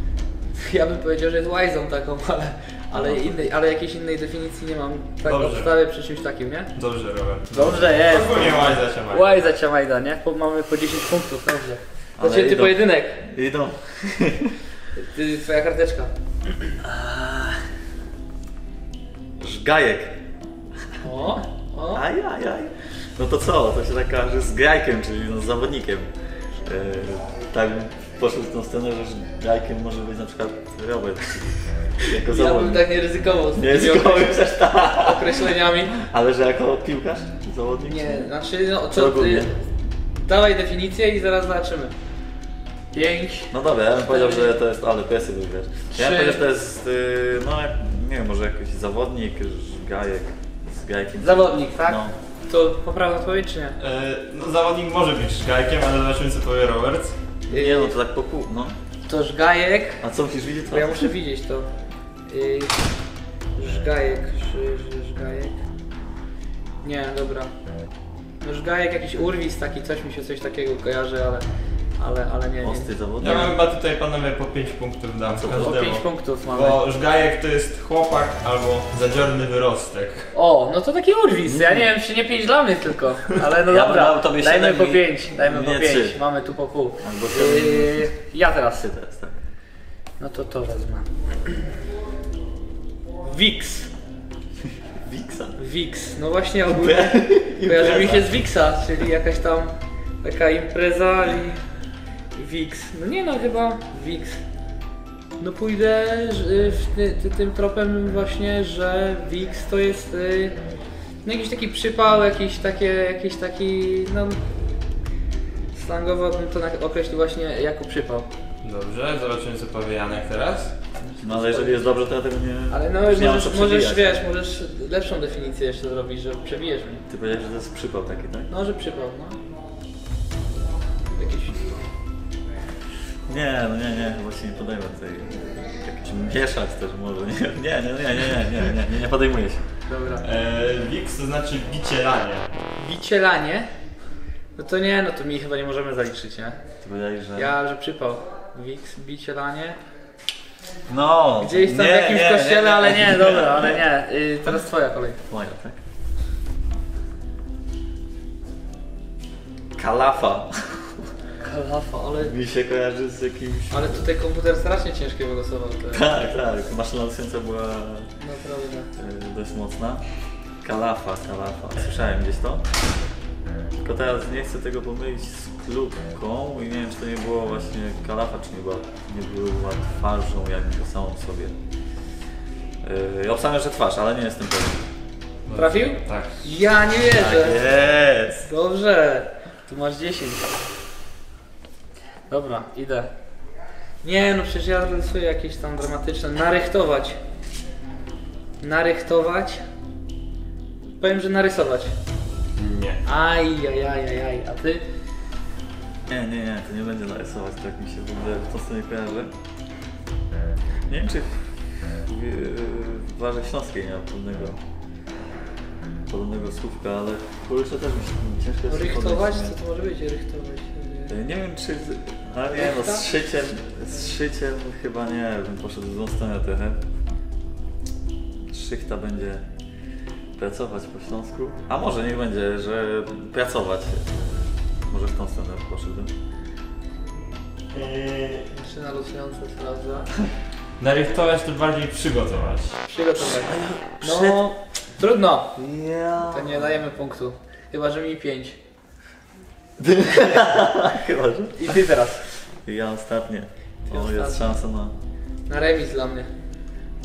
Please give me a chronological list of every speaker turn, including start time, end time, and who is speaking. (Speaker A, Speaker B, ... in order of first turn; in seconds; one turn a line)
Speaker A: 0.6-6.7
Speaker B: 2.9-3.4
Speaker C: 5.2-5.7
Speaker C: 6.7-9.4
Speaker A: 7.5-13.2
Speaker B: 12.2-14.6
Speaker A: 14.9-16.1
Speaker B: 16.8-17.6
Speaker B: 19.4-20.1
Speaker A: 21.0-22.0
Speaker B: 21.9-26.1
Speaker B: 26.6-32.8
Speaker A: 32.2-36.0
Speaker B: 33.5-38.3
Speaker A: 37.9-39.5
Speaker B: 38.9-39.5
Speaker A: 40.2-41.9
Speaker A: 42.9-43.5
Speaker B: 43.5-52.1
Speaker A: 44.0-44.5
Speaker A: 45.9-46.4
Speaker A: 51.2-53.8
Speaker C: 53.8-57.2
Speaker B: 57.5-58.8
Speaker A: 57.5-58.0
Speaker A: 59.1-60.0
Speaker B: 60.0-61.1
Speaker A: 60.6-61.7
Speaker A: 62.3-62.8
Speaker A: 63.5-65.6
Speaker A: 66.8-67.5
Speaker A: 68.4-71.4
Speaker A: 72.0-72.9
Speaker B: 72.6-73.6
Speaker C: 73.2-80.3
Speaker B: 75.3-75.8
Speaker A: 75.5-76.8
Speaker A: 80.3-88.9
Speaker B: 81.4-81.8
Speaker B: 83.7-86.2
Speaker B: 87.0-88.1
Speaker B: 88.7-89.4
Speaker A: 90.2-91.5
Speaker A: 93.2-93.9
Speaker B: 95.0-95.6
Speaker A: 95.6-101.6
Speaker B: 96.7-98.3
Speaker A: 102.3-104.4
Speaker A: 105.4-110.5
Speaker A: 111.2-114.4
Speaker A: 115.7-118.3
Speaker C: 118.6-120.7
Speaker A: 121.0-122.0
Speaker B: 121.2-124.2
Speaker A: 122.7-127.0
Speaker B: 127.1-128.5
Speaker A: 128.5-129.4
Speaker A: 131.1-131.9
Speaker B: 133.3-139.6
Speaker A: 139.8-140.2
Speaker C: 140.2-142.5
Speaker A: 142.8-143.7
Speaker A: 144.6-146.6
Speaker B: 146.8-147.5
Speaker A: 147.4-149.8
Speaker B: 150.9-153.8
Speaker A: 151.4-155.2
Speaker B: 155.3-155.8
Speaker B: 159.8-161.0
Speaker A: 161.4-162.3
Speaker B: 162.2-164.0
Speaker A: 163.7-166.2
Speaker B: 165.9-168.1
Speaker A: 168.2-168.9
Speaker B: 169.0-170.0
Speaker B: 170.6-172.6
Speaker B: 173.8-181.6
Speaker B: 182.8-184.8
Speaker C: 185.4-186.4
Speaker A: 185.5-187.6
Speaker B: 187.1-188.5
Speaker A: 188.4-190.5
Speaker A: 192.3-193.1
Speaker A: 194.0-197.2
Speaker A: 198.6-199.6
Speaker A: 201.0-201.9
Speaker C: 202.6-203.0
Speaker A: 203.0-204.8
Speaker B: 206.1-209.3
Speaker B: 210.9-214.6
Speaker B: 216.1-219.5
Speaker A: 218.7-221.1
Speaker B: 221.1-226.8
Speaker A: 222.5-223.1
Speaker B: 228.5-229.4
Speaker B: 230.3-236.1
Speaker C: 237.7-238.5
Speaker A: 238.5-240.1
Speaker C: 240.8-242.8
Speaker A: 242.9-245.6
Speaker B: 243.4-244.4
Speaker B: 245.6-246.8
Speaker A: 246.2-248.6
Speaker B: 249.8-251.7
Speaker A: 251.6-252.2
Speaker B: 252.6-254.9
Speaker A: 253.8-254.6
Speaker A: 255.5-256.3